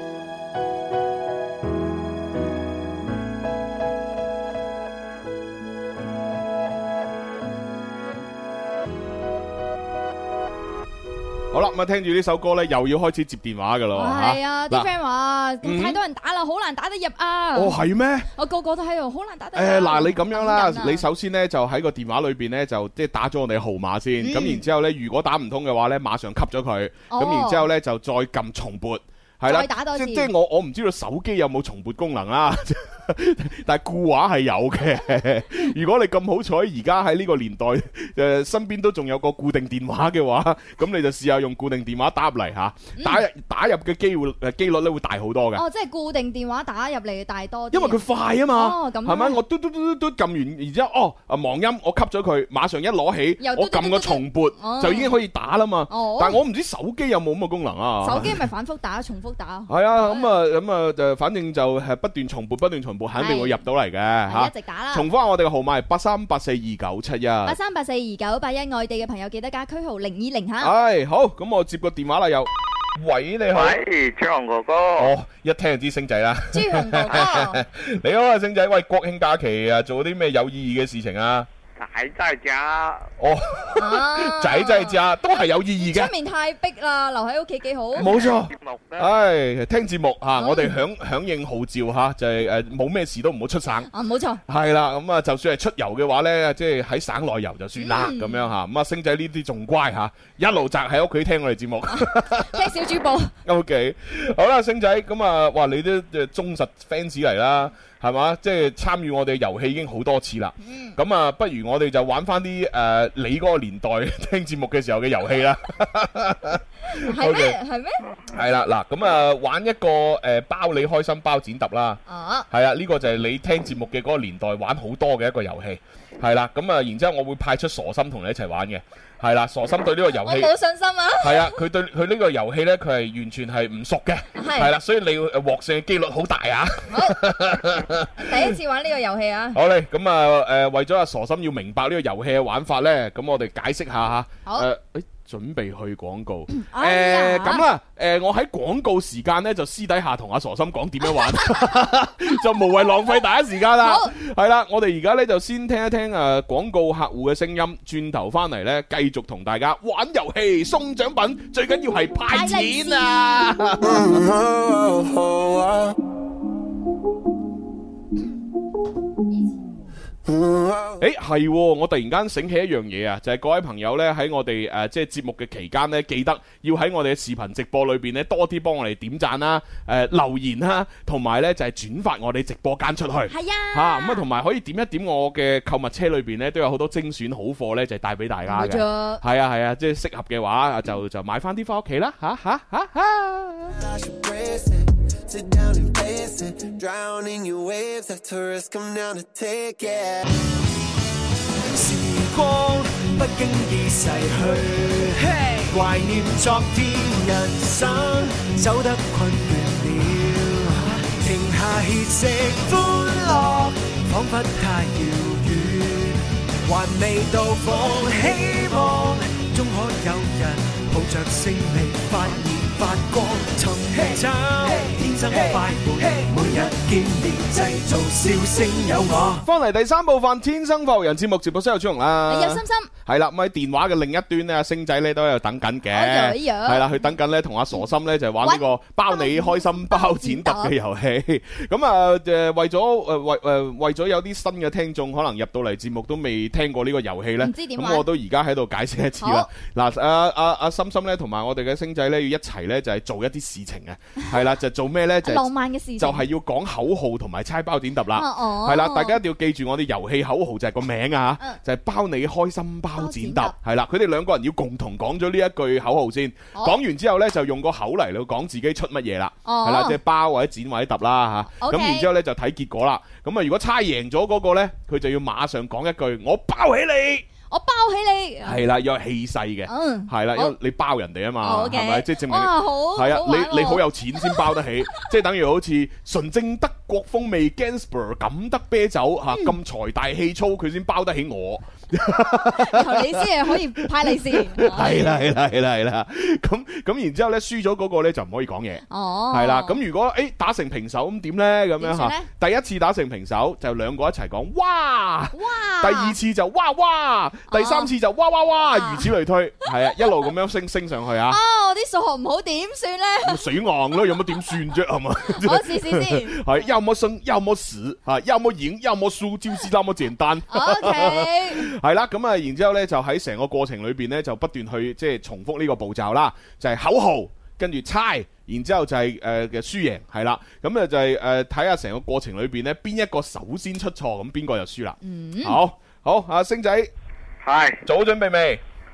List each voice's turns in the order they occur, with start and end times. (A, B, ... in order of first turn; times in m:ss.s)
0:11.5-0:14.9 A
0:14.0-0:17.8 B
0:15.6-0:16.0 A
0:17.5-0:18.3 A
0:18.3-0:21.0 B
0:19.5-0:45.6 A
0:24.2-0:24.6 B
0:27.1-0:27.7 B
0:29.5-0:30.3 B
0:43.0-0:43.2 B
0:45.6-0:49.4 B
0:47.7-0:58.4 A
0:53.4-0:55.1 B
0:55.9-0:56.4 B
0:58.0-1:00.3 B
0:59.7-1:07.6 A
1:03.2-1:03.6 B
1:04.3-1:05.1 B
1:07.4-1:10.7 B
1:10.6-1:13.8 A
1:13.5-1:15.1 C
1:15.0-1:21.5 A
1:16.5-1:17.6 B
1:21.8-1:23.1 C
1:23.2-1:26.1 A
1:23.8-1:28.3 B
1:28.0-1:33.9 A
1:28.1-1:29.1 C
1:30.4-1:30.8 B
1:33.9-1:34.4 B
1:34.5-1:42.6 A
1:37.8-1:38.4 B
1:41.9-1:43.3 B
1:43.4-1:57.6 A
1:50.6-1:51.0 B
1:56.9-1:58.0 B
1:58.3-2:10.5 A
2:02.1-2:02.5 B
2:10.2-2:11.6 B
2:11.2-2:18.5 A
2:14.4-2:14.7 B
2:16.9-2:17.2 B
2:18.2-2:19.6 B
2:19.5-2:44.2 A
2:26.5-2:27.6 B
2:33.8-2:34.1 B
2:42.3-2:43.1 B
2:43.9-2:45.9 D
2:50.3-2:51.0 D
2:51.0-3:13.8 A
3:03.3-3:04.2 B
3:08.5-3:09.2 B
3:13.7-3:20.2 D
3:21.6-3:49.4 E
3:49.4-4:37.2 A
3:52.3-3:52.9 B
3:55.9-3:56.9 B
3:58.4-4:00.7 B
4:07.4-4:08.0 B
4:09.2-4:09.5 B
4:15.2-4:16.2 B
4:18.1-4:19.2 B
4:23.0-4:23.5 B
4:29.4-4:30.0 B
4:31.6-4:32.1 B
4:37.5-4:38.6 B
4:38.4-5:11.4 A
4:39.7-4:40.5 B
4:41.4-4:44.4 B
4:52.6-4:55.2 B
4:58.9-4:59.8 B
5:01.8-5:02.3 B
5:05.3-5:06.2 B
5:07.5-5:07.9 B
5:08.7-5:09.1 B
5:11.3-5:13.4 B
5:13.2-5:36.9 A
5:15.4-5:16.5 B
5:20.5-5:21.7 B
5:35.0-5:35.6 B
5:37.4-5:37.8 C
5:37.8-5:38.6 A